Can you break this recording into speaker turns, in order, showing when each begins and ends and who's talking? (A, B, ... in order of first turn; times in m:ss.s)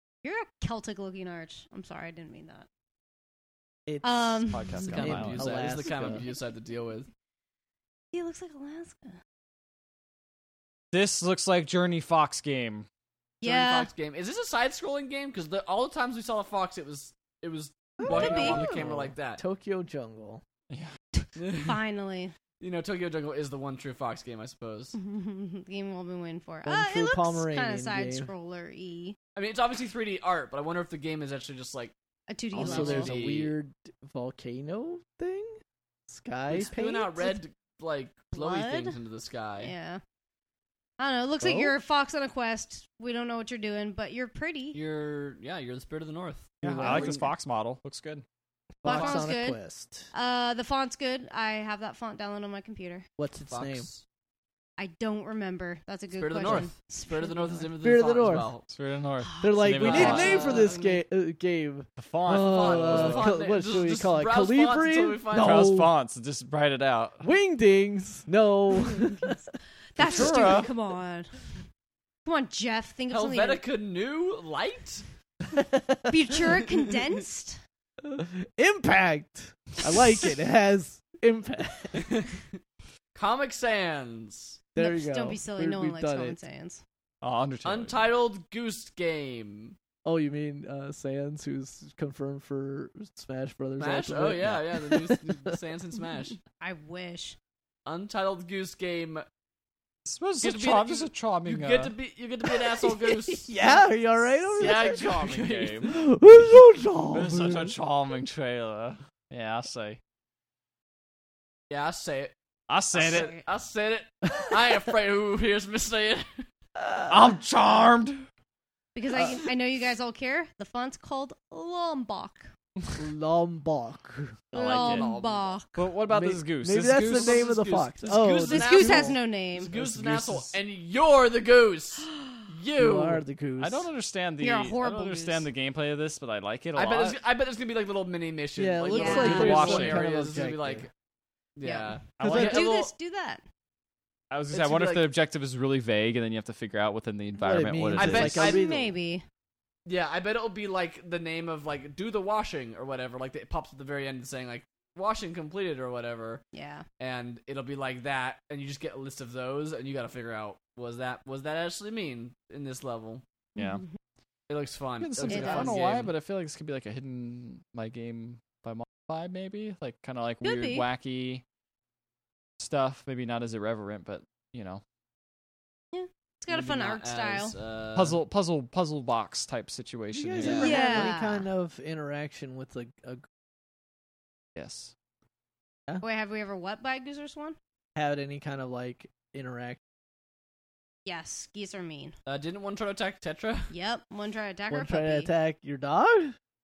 0:00.2-0:02.7 A
0:03.9-0:06.2 B
0:04.0-0:05.1 A
0:04.5-0:06.2 C
0:04.8-0:07.1 D
0:08.1-0:09.2 A
0:10.9-0:12.9 C
0:13.4-0:13.9 A
0:13.4-0:19.4 D
0:18.0-0:20.4 B
0:18.1-0:18.8 A
0:21.4-0:21.8 D
0:21.5-0:22.3 A
0:22.6-0:25.0 D
0:25.0-0:29.2 A
0:26.6-0:28.3 B
0:29.4-0:31.9 D
0:32.3-0:33.1 A
0:32.5-0:33.5 D
0:32.5-0:37.3 B
0:36.5-0:39.7 D
0:38.3-0:39.0 A
0:39.6-0:40.0 A
0:41.0-0:44.8 A
0:41.4-0:41.8 B
0:44.7-0:47.3 D
0:46.6-0:47.3 B
0:46.8-0:48.2 C
0:48.8-0:50.1 B
0:48.8-0:49.3 D
0:48.8-0:49.6 A
0:50.1-0:53.1 A
0:53.2-0:53.9 B
0:53.4-0:54.0 D
0:54.8-0:57.7 A
0:56.1-0:58.7 D
0:57.8-0:58.5 B
0:58.7-1:00.7 C
0:59.2-1:01.0 A
0:59.4-1:05.9 B
0:59.8-1:00.7 D
1:02.0-1:03.3 C
1:02.3-1:05.7 D
1:05.3-1:07.3 C
1:07.2-1:09.4 B
1:09.9-1:11.5 A
1:10.0-1:10.7 C
1:10.1-1:10.6 B
1:12.2-1:13.6 A
1:13.1-1:15.1 D
1:15.5-1:16.4 B
1:16.1-1:17.6 A
1:18.0-1:22.1 B
1:21.9-1:22.6 D
1:23.1-1:24.6 D
1:24.8-1:26.4 B
1:24.8-1:26.8 A
1:27.2-1:28.1 C
1:27.6-1:29.8 D
1:30.0-1:35.6 B
1:33.8-1:36.4 D
1:36.6-1:37.4 A
1:37.9-1:39.2 D
1:40.1-1:41.9 C
1:40.4-1:43.5 D
1:42.5-1:45.2 B
1:44.6-1:45.9 D
1:44.6-1:46.0 C
1:45.8-1:47.7 B
1:47.1-1:50.0 C
1:51.7-1:52.3 D
1:52.7-1:53.3 C
1:52.9-1:56.5 D
1:53.0-1:53.5 A
1:56.8-1:57.1 B
1:57.1-1:58.3 C
1:59.0-2:02.5 A
2:03.0-2:04.6 B
2:04.5-2:05.8 A
2:04.6-2:05.1 C
2:04.8-2:05.5 D
2:05.8-2:07.4 C
2:06.1-2:09.2 B
2:07.1-2:13.2 D
2:08.5-2:09.7 A
2:09.7-2:10.5 B
2:12.8-2:13.9 B
2:13.6-2:17.2 C
2:14.4-2:15.5 A
2:16.8-2:20.9 D
2:18.6-2:20.9 B
2:18.9-2:19.8 A
2:19.0-2:20.0 C
2:21.6-2:22.9 D
2:21.6-2:23.4 A
2:22.2-2:22.6 C
2:22.2-2:22.6 B
2:24.3-2:28.5 C
2:24.5-2:25.1 D
2:27.4-2:28.9 B
2:28.0-2:28.6 D
2:28.4-2:29.2 A
2:29.9-2:36.4 D
2:36.5-2:36.9 A
2:37.0-2:43.2 D
2:43.6-2:43.8 C
2:43.6-2:43.8 A
2:44.5-2:46.1 D
2:45.0-2:51.4 C
2:45.3-2:45.8 A
2:50.4-2:50.9 A
2:52.6-2:54.8 C
2:55.9-2:57.6 A
2:56.5-2:58.2 D
2:58.0-3:01.1 C
3:00.1-3:03.2 B
3:00.4-3:00.8 D
3:00.6-3:01.5 A
3:04.6-3:04.9 C
3:06.0-3:07.6 A
3:08.0-3:09.8 B
3:11.0-3:12.2 A
3:12.3-3:13.7 D
3:13.7-3:15.3 A
3:14.7-3:16.4 B